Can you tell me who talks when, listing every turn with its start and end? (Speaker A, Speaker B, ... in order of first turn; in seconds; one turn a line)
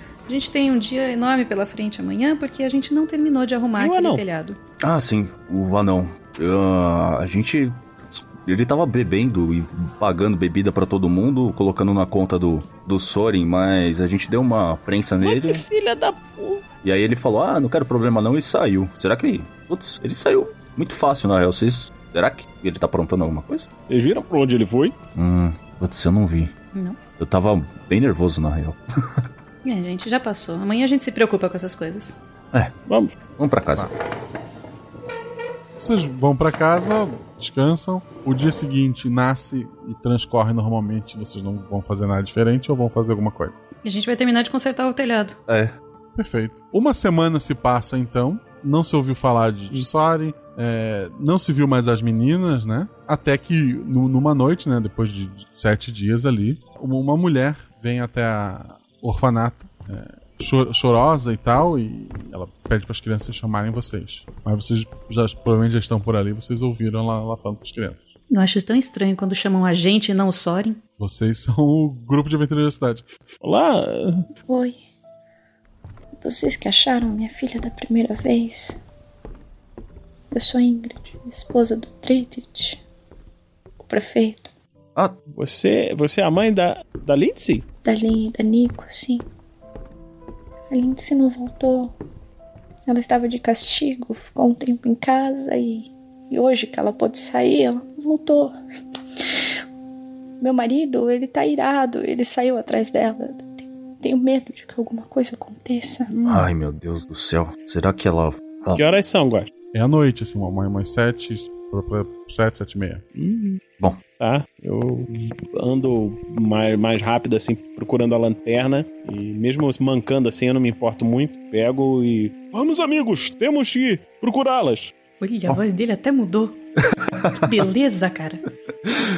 Speaker A: 0.3-4.6
Speaker B: 3.8-4.2
Speaker C: 4.8-15.6
Speaker B: 15.2-16.6
Speaker C: 16.8-23.7
Speaker B: 23.9-24.9
Speaker C: 25.1-26.5
Speaker C: 27.2-29.2
Speaker A: 29.6-32.2
Speaker B: 32.9-33.1
Speaker C: 33.4-33.9
Speaker D: 35.8-43.6
Speaker A: 43.8-45.4
Speaker C: 45.5-45.7
Speaker D: 46.1-68.1
Speaker A: 68.3-70.8
Speaker D: 71.0-73.0
Speaker B: 73.4-74.2
Speaker E: 74.5-74.8
Speaker E: 76.2-78.8
Speaker E: 80.3-82.8
Speaker E: 83.8-84.5
Speaker B: 85.3-87.6
Speaker E: 87.8-89.2
Speaker E: 90.7-91.9
Speaker E: 92.9-98.5
Speaker E: 100.4-106.1
Speaker B: 106.1-106.5
Speaker C: 106.2-108.8
Speaker B: 108.8-109.5
Speaker D: 109.7-113.0
Speaker B: 113.2-113.6
Speaker B: 114.2-124.9
Speaker A: 125.2-126.6
Speaker A: 127.3-128.4